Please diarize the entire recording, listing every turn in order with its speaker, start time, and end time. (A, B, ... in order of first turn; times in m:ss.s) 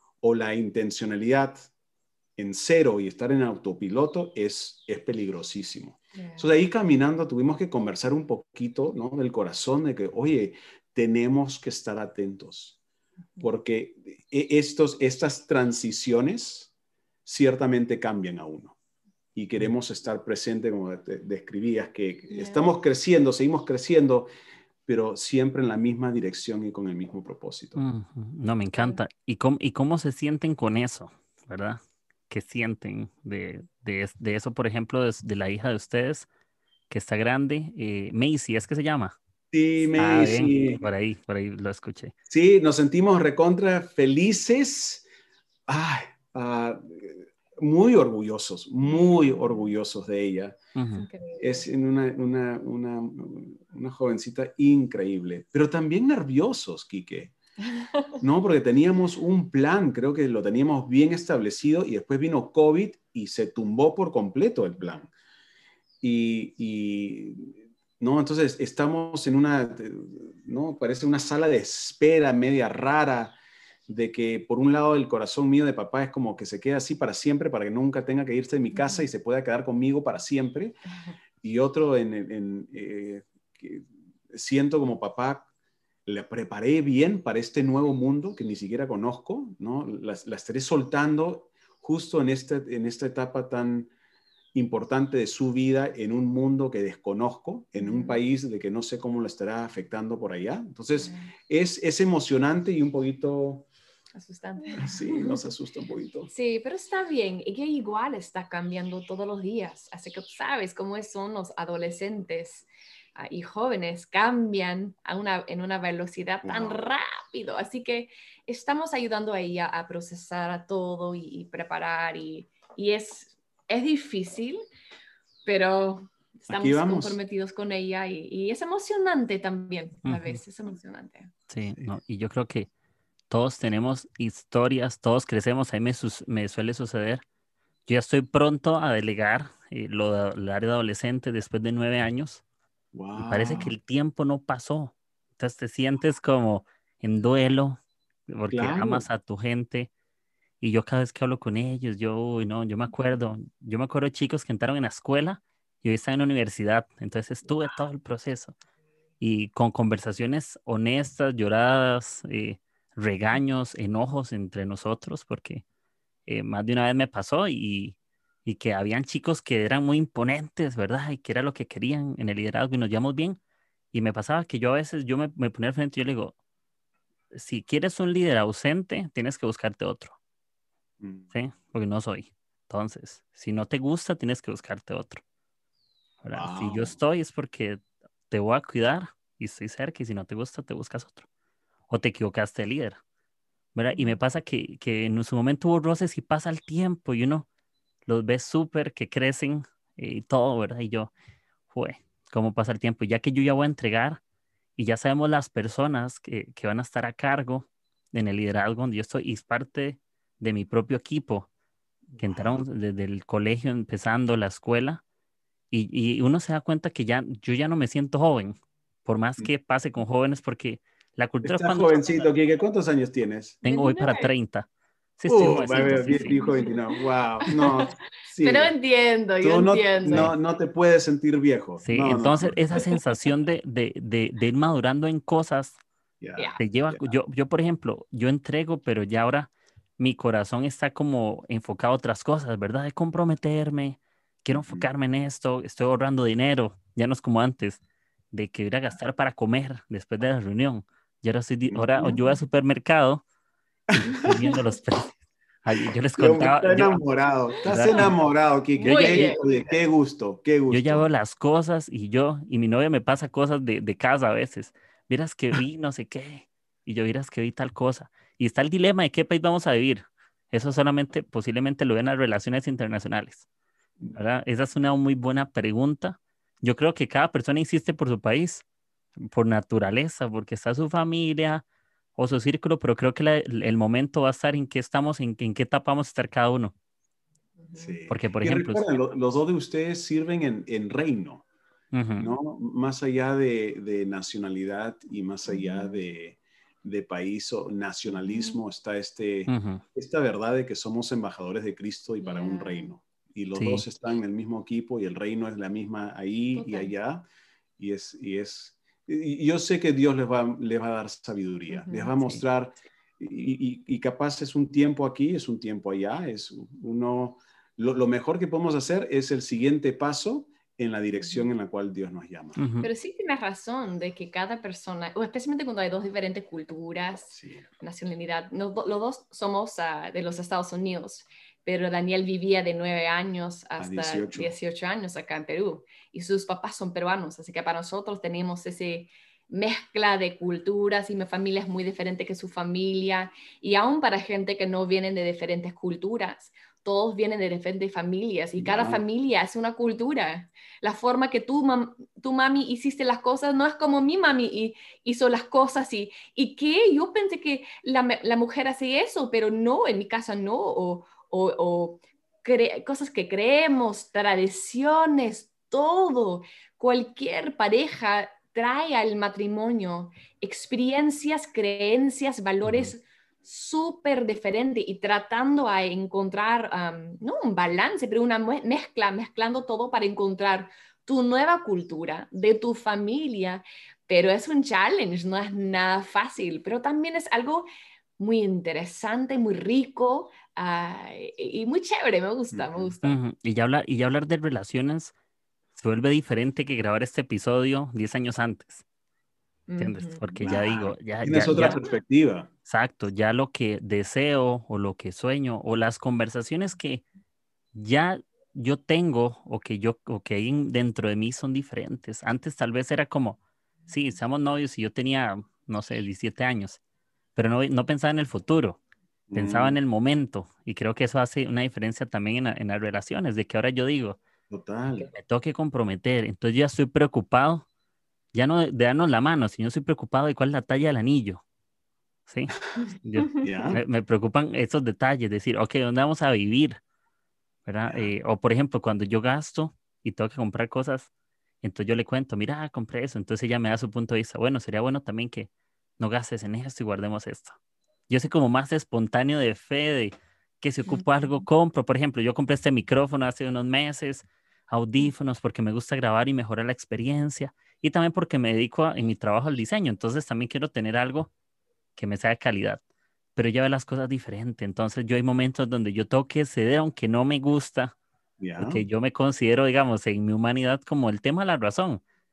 0:00.2-0:01.7 A
0:02.4-0:12.8 A
0:06.1-0:06.5 B
0:13.4-0:16.7 A
0:17.2-0:18.8 A
0:19.3-0:24.3 A
0:22.3-0:22.7 B
0:24.8-0:27.8 A
0:27.8-0:36.3 C
0:36.9-0:39.2 C
0:39.5-0:40.8 A
0:40.0-0:42.1 C
0:42.3-0:45.1 A
0:45.7-0:50.6 A
0:48.9-0:49.7 B
0:50.8-0:51.0 C
0:51.0-0:51.7 B
0:51.4-0:57.3 A
0:57.7-0:58.1 B
0:58.2-1:05.1 A
1:06.0-1:13.4 A
1:13.9-1:20.8 A
1:18.7-1:19.0 B
1:21.4-1:25.5 A
1:26.0-1:33.9 A
1:34.5-1:43.7 A
1:37.8-1:38.2 B
1:41.0-1:41.3 B
1:44.2-1:45.4 B
1:44.7-1:46.3 A
1:46.3-2:04.6 B
1:56.4-1:56.8 A
2:05.4-2:11.3 B
2:06.5-2:07.2 A
2:10.0-2:10.4 C
2:11.5-2:12.7 C
2:13.3-2:17.2 C
2:17.9-2:22.4 C
2:22.9-2:23.7 A
2:23.2-2:29.9 C
2:28.5-2:29.1 A
2:30.6-2:38.5 C
2:39.2-2:45.6 C
2:46.3-2:53.4 C
2:53.9-2:56.3 C
2:57.3-3:00.2 C
3:01.0-3:01.3 A
3:01.3-3:05.2 C
3:06.2-3:11.3 C
3:06.2-3:06.9 A
3:11.9-3:13.0 C
3:13.7-3:17.5 C
3:18.0-3:21.1 C
3:21.7-3:24.2 C
3:24.8-3:31.5 C
3:32.1-3:32.6 A
3:32.2-3:35.0 C
3:35.7-3:42.3 C
3:41.4-3:43.6 A
3:43.6-3:44.3 B
3:43.6-3:46.4 C
3:45.3-3:48.7 A
3:45.5-3:46.8 B
3:47.4-3:47.8 B
3:48.4-3:50.3 B
3:49.4-3:52.7 A
3:50.1-3:50.3 C
3:51.8-3:55.8 C
3:56.2-3:57.1 A
3:56.6-4:07.8 C
4:04.5-4:04.9 A
4:08.3-4:13.2 C
4:11.7-4:12.2 A
4:13.9-4:14.5 A
4:13.9-4:17.0 C
4:16.1-4:21.1 A
4:17.6-4:18.2 C
4:18.8-4:19.3 C
4:18.8-4:19.4 B
4:20.7-4:33.4 C
4:34.1-4:38.6 C
4:39.2-4:41.6 C
4:42.2-4:46.7 C
4:47.6-4:48.0 B
4:47.8-4:51.4 A
4:48.1-4:48.8 C
4:51.9-4:52.3 C
4:52.2-5:07.2 A
4:55.5-4:56.0 B
4:58.1-4:58.6 B
4:59.5-4:59.8 C
5:02.2-5:02.9 B
5:03.6-5:03.8 C
5:06.5-5:06.9 B
5:07.8-5:22.6 A
5:11.7-5:12.1 B
5:21.2-5:21.5 B
5:22.6-5:22.9 C
5:22.8-6:33.2 B
5:27.3-5:27.6 A
5:33.8-5:34.5 A
5:48.6-5:49.0 A
6:12.6-6:12.9 C
6:32.5-6:32.9 A
6:33.0-6:35.1 C
6:35.7-6:38.8 C
6:39.7-6:40.2 B
6:39.8-6:41.8 C
6:40.4-6:42.5 A
6:42.6-6:47.0 C
6:47.7-6:56.8 C
6:57.4-6:58.8 C
6:59.3-6:59.8 A
6:59.3-7:04.2 C
7:04.5-7:05.1 A
7:05.0-7:07.6 C
7:08.3-7:11.4 C
7:12.3-7:16.8 C
7:13.4-7:13.8 A
7:17.6-7:21.1 C
7:21.6-7:27.6 C
7:28.1-7:41.3 C
7:42.0-7:42.8 C
7:43.4-7:47.9 C
7:48.4-7:48.8 A
7:48.6-7:52.0 C